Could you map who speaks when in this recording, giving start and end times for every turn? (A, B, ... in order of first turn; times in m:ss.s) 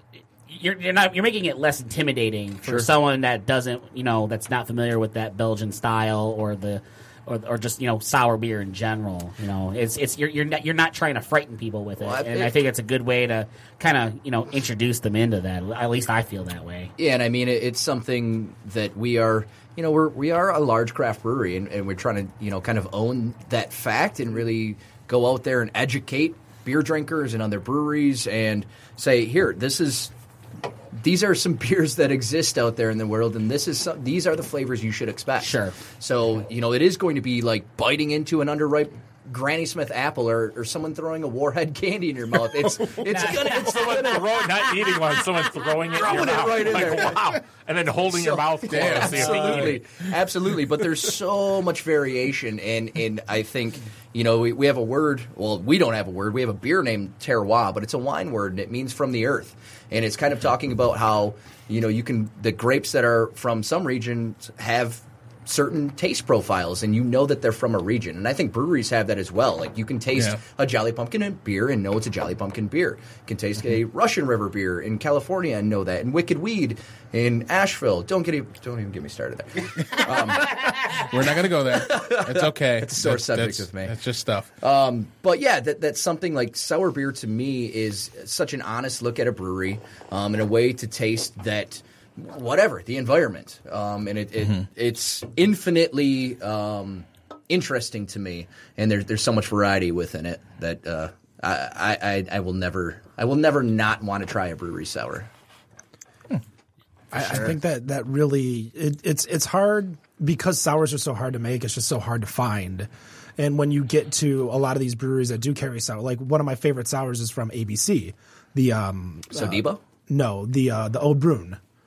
0:00.5-0:16.9 A
0:12.0-0:12.6 B
0:17.0-0:30.1 B
0:30.9-0:44.5 B
0:35.4-0:35.8 A
0:43.1-0:44.7 A
0:43.2-0:49.8 C
0:46.0-0:47.4 B
0:46.0-0:46.6 A
0:48.0-1:24.0 B
0:48.7-0:49.8 D
1:20.9-1:24.5 D
1:24.6-1:45.3 B
1:47.1-2:01.6 E
1:47.1-1:47.6 B
1:59.3-1:59.8 B